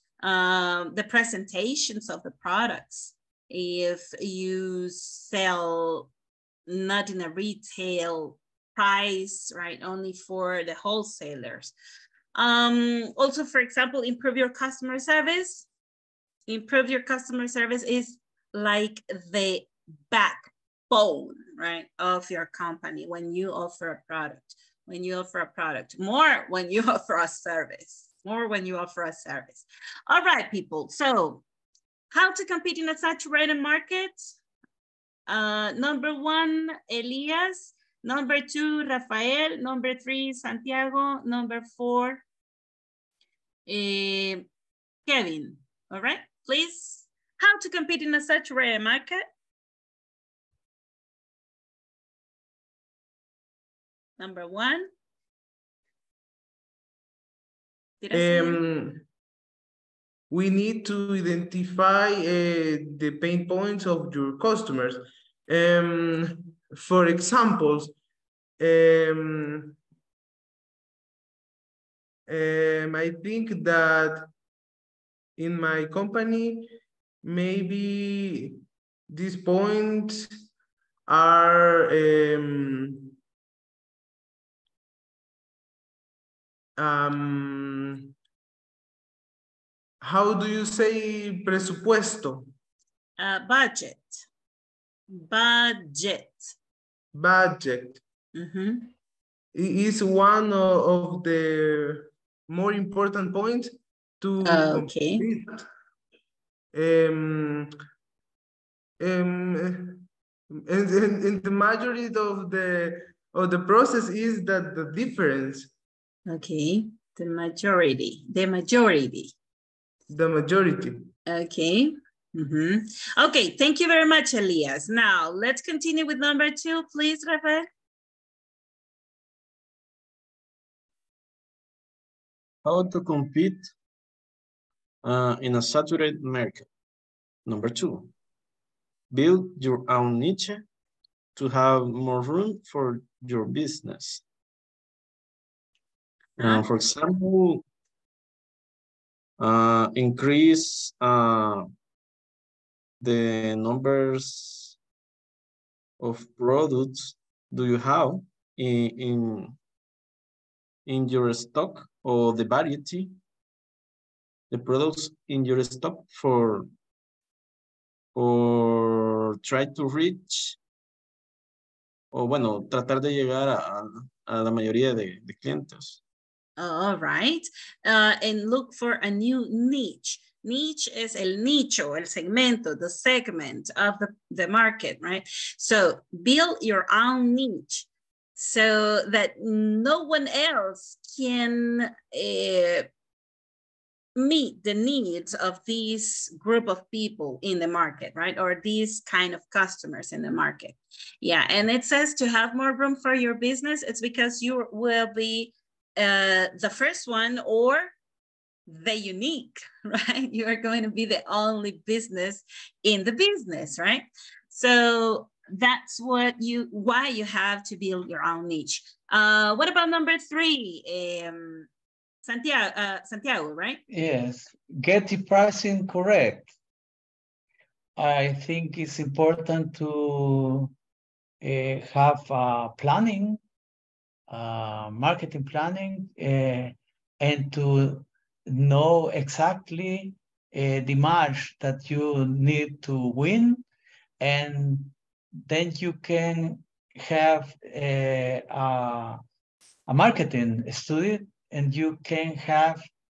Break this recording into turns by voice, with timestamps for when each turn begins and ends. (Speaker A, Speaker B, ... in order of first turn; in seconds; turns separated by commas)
Speaker A: 0.2-6.1, Speaker A: 6.7-11.7, Speaker A: 12.3-15.7, Speaker A: 16.5-31.4, Speaker A: 32.1-34.3, Speaker A: 35.3-42.2, Speaker A: 43.7-44.5, Speaker A: 45.1-49.2, Speaker A: 54.2-54.9, Speaker A: 58.0-58.6, Speaker B: 58.1-59.0, Speaker B: 60.3-67.9, Speaker B: 68.6-69.8, Speaker B: 72.3-74.3, Speaker B: 75.4-76.7, Speaker B: 77.2-80.3, Speaker B: 81.1-83.1, Speaker B: 86.8-88.1, Speaker B: 90.0-92.5, Speaker A: 93.2-94.2, Speaker A: 95.1-96.5, Speaker B: 97.1-98.0, Speaker A: 98.3-98.9, Speaker B: 99.5-105.6, Speaker A: 104.4-105.3, Speaker B: 106.7-107.7, Speaker B: 109.0-110.0, Speaker B: 110.6-115.7, Speaker A: 116.3-119.3, Speaker B: 120.1-121.1, Speaker A: 121.3-127.7, Speaker C: 132.6-133.7, Speaker C: 135.0-136.7, Speaker C: 137.4-138.1, Speaker C: 139.1-140.6, Speaker C: 141.3-144.2, Speaker C: 146.4-147.6, Speaker A: 146.4-146.6, Speaker C: 149.4-151.7, Speaker C: 153.0-154.8, Speaker C: 156.0-159.6, Speaker C: 160.8-163.2, Speaker C: 164.5-166.7, Speaker C: 168.1-170.6, Speaker C: 172.1-176.0, Speaker A: 176.6-192.9, Speaker A: 194.2-207.9, Speaker A: 208.7-221.7, Speaker A: 222.2-223.8, Speaker D: 223.9-226.5, Speaker D: 228.0-230.7, Speaker D: 231.4-233.4, Speaker D: 234.3-243.6, Speaker D: 244.2-244.9, Speaker D: 245.5-249.2, Speaker D: 249.9-252.8